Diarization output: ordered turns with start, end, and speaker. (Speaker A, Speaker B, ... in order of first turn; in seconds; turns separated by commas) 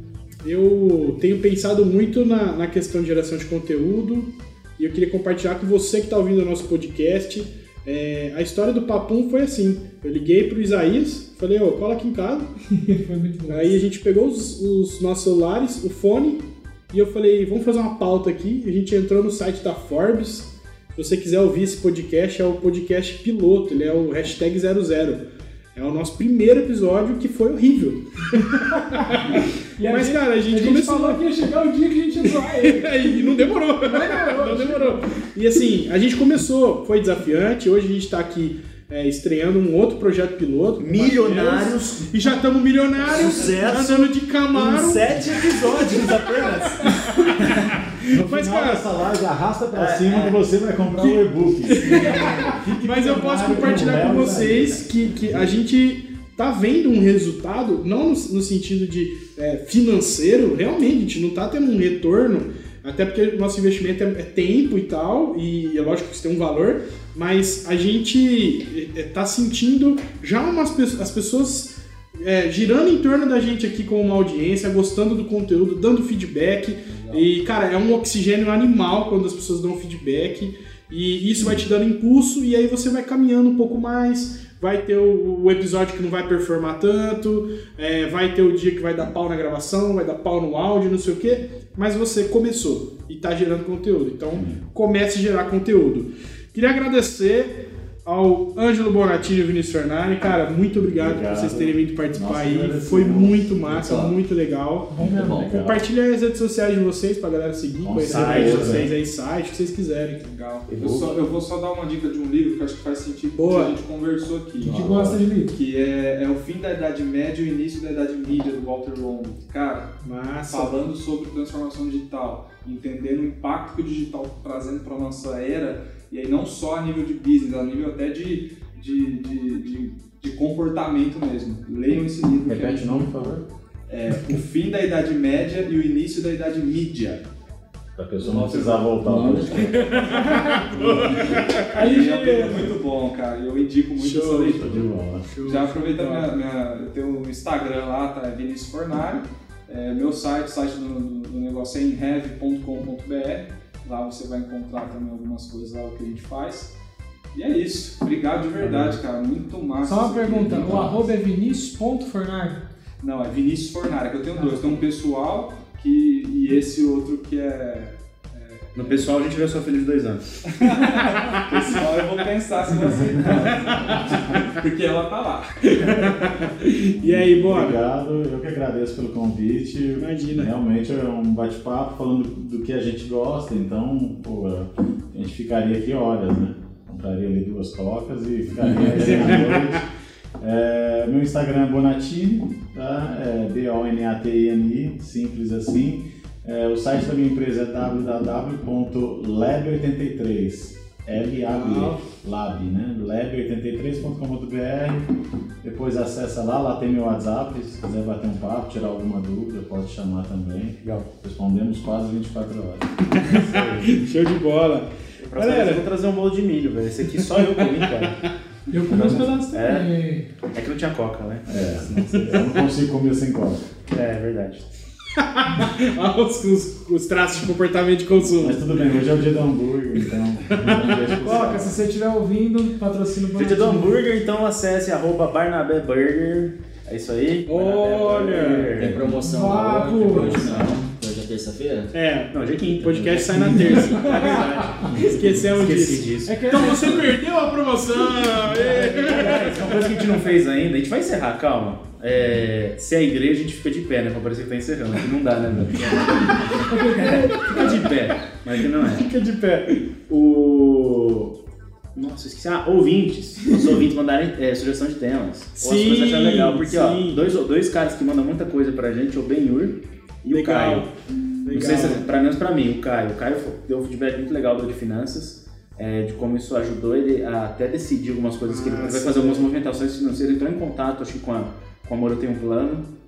Speaker A: 0.4-12.5, Speaker B: 12.7-13.8, Speaker A: 13.4-31.2, Speaker B: 28.7-35.2, Speaker A: 32.2-45.1, Speaker C: 40.8-42.4, Speaker C: 43.0-47.8, Speaker A: 46.4-48.9, Speaker D: 48.1-54.9, Speaker C: 49.7-50.4, Speaker A: 51.0-110.2, Speaker E: 76.9-77.2, Speaker D: 94.3-94.6, Speaker D: 101.0-103.4, Speaker F: 103.8-104.1, Speaker B: 105.0-105.4, Speaker D: 105.0-105.8, Speaker F: 105.1-105.4, Speaker D: 107.8-108.9, Speaker C: 108.0-108.9, Speaker E: 110.2-120.0, Speaker C: 110.7-111.2, Speaker A: 113.3-113.8, Speaker D: 114.6-115.2, Speaker B: 114.6-115.5, Speaker A: 120.0-120.7, Speaker E: 120.5-133.2, Speaker D: 131.9-133.4, Speaker E: 133.9-137.2, Speaker D: 137.9-140.2, Speaker F: 138.2-139.9, Speaker E: 138.3-138.8, Speaker A: 139.8-142.7, Speaker E: 139.9-144.9, Speaker B: 140.3-140.6, Speaker B: 141.8-142.6, Speaker A: 144.0-144.6, Speaker D: 144.6-145.3, Speaker A: 145.3-146.3, Speaker E: 145.4-156.7, Speaker E: 157.3-161.1, Speaker C: 158.6-159.0, Speaker B: 159.8-162.6, Speaker C: 160.5-160.8, Speaker E: 163.0-169.1, Speaker C: 168.7-170.2, Speaker E: 170.4-176.2, Speaker A: 175.7-177.8, Speaker D: 176.7-189.8, Speaker A: 180.0-180.5, Speaker A: 188.8-189.8, Speaker D: 190.4-205.0, Speaker A: 201.5-202.0, Speaker D: 205.6-212.9, Speaker A: 213.2-215.8, Speaker C: 213.2-214.0, Speaker C: 215.2-219.9, Speaker A: 217.7-218.3, Speaker B: 218.7-220.3, Speaker D: 218.9-219.2, Speaker C: 220.4-222.5, Speaker D: 221.5-223.6, Speaker A: 222.1-222.4, Speaker C: 223.9-224.7, Speaker A: 225.2-228.6, Speaker D: 228.4-231.8, Speaker A: 230.5-230.8, Speaker B: 231.2-234.0, Speaker C: 233.3-239.1, Speaker A: 237.5-238.8, Speaker F: 238.7-241.9, Speaker B: 239.2-240.5, Speaker A: 241.9-249.9, Speaker C: 242.3-247.2, Speaker D: 244.1-245.0, Speaker C: 248.4-259.1, Speaker D: 255.6-255.9, Speaker A: 255.9-257.9, Speaker A: 258.8-259.8, Speaker C: 260.1-261.3, Speaker C: 261.9-270.9, Speaker A: 265.6-267.2, Speaker A: 270.3-270.9, Speaker A: 271.4-272.1, Speaker C: 271.5-282.9, Speaker A: 278.5-279.5